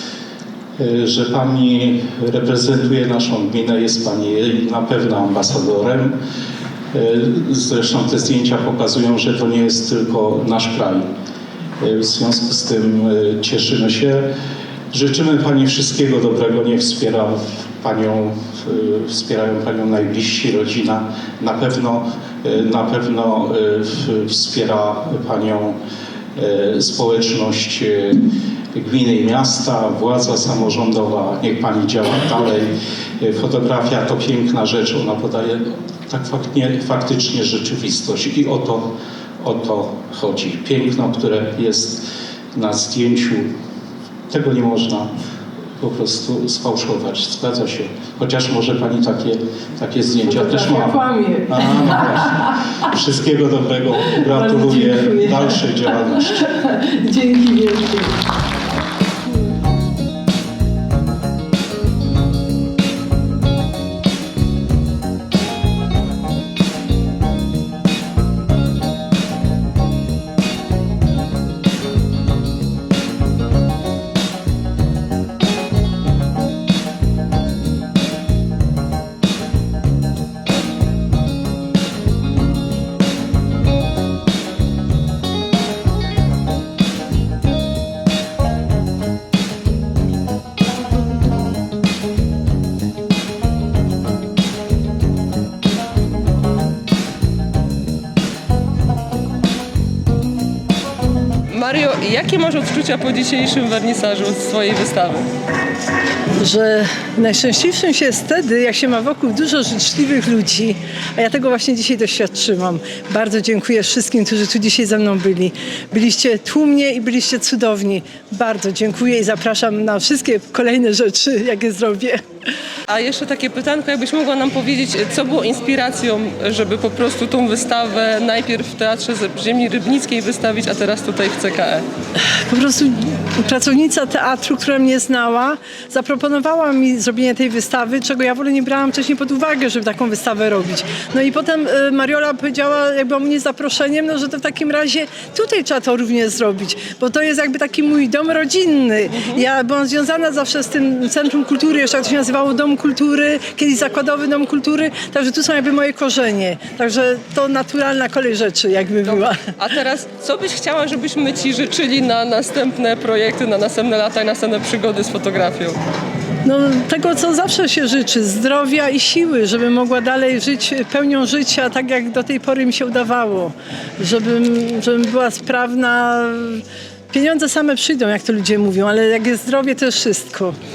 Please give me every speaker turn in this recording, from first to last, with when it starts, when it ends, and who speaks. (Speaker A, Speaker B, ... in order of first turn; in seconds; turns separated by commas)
Speaker A: 0.8-6.2, Speaker A: 6.9-11.1, Speaker A: 11.8-14.3, Speaker A: 14.9-25.8, Speaker A: 26.3-43.5, Speaker A: 44.3-45.1, Speaker A: 45.8-56.5, Speaker B: 50.2-52.6, Speaker B: 54.1-58.1, Speaker C: 101.5-105.3, Speaker B: 106.4-122.2, Speaker C: 122.9-131.8, Speaker B: 132.2-159.4, Speaker C: 149.2-149.4, Speaker C: 159.1-165.8, Speaker B: 166.4-180.6